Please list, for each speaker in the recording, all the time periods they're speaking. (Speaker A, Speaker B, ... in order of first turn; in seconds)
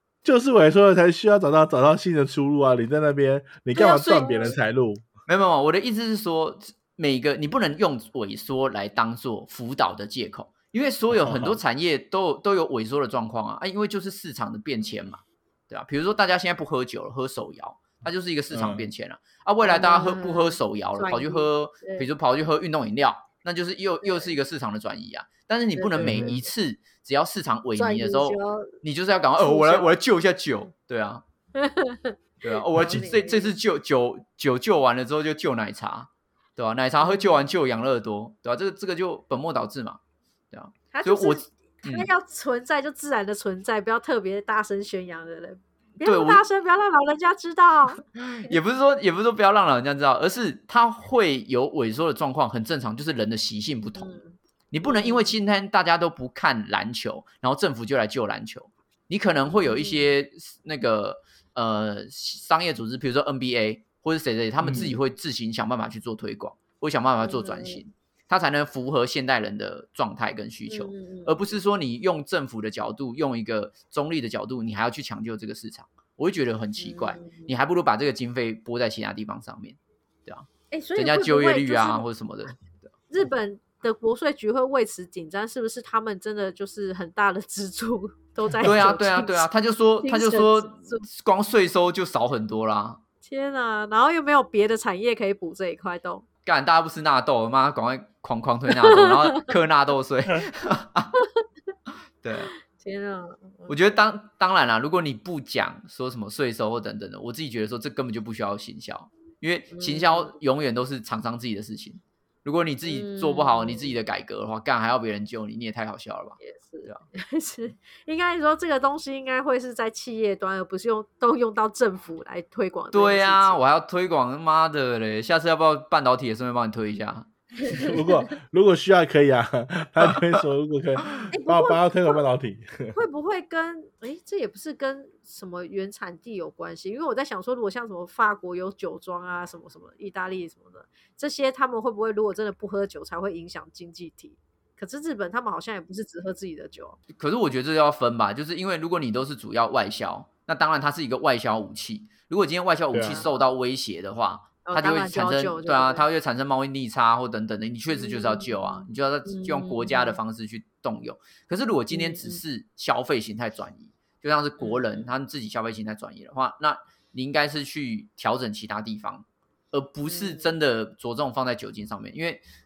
Speaker A: 0.2-5.1, 11.1-11.6, 18.5-18.9, 26.0-26.4, 64.6-65.0, 127.7-133.0, 152.9-153.3
Speaker B: 3.8-4.6, 19.6-22.1, 24.0-24.3, 25.8-26.4, 27.8-28.7, 29.4-30.0, 31.6-33.5, 37.0-37.5, 40.9-48.6, 54.0-55.4, 59.5-60.1, 67.2-67.8, 70.7-71.5, 76.8-77.5, 80.7-82.1, 83.1-89.5, 90.0-91.1, 93.2-96.2, 98.8-99.5, 102.7-103.8, 109.7-110.3, 112.9-114.0, 116.4-123.6, 131.3-132.2, 132.9-147.0, 153.0-153.3, 154.7-156.0, 157.9-160.2, 161.9-162.4, 164.6-165.1, 170.1-170.5
Speaker C: 5.3-31.2, 32.4-40.0, 40.5-42.1, 46.0-46.4, 48.1-54.2, 54.7-82.9, 88.6-93.0, 96.5-101.1, 102.2-102.5, 103.7-117.0, 122.9-127.3, 147.1-172.4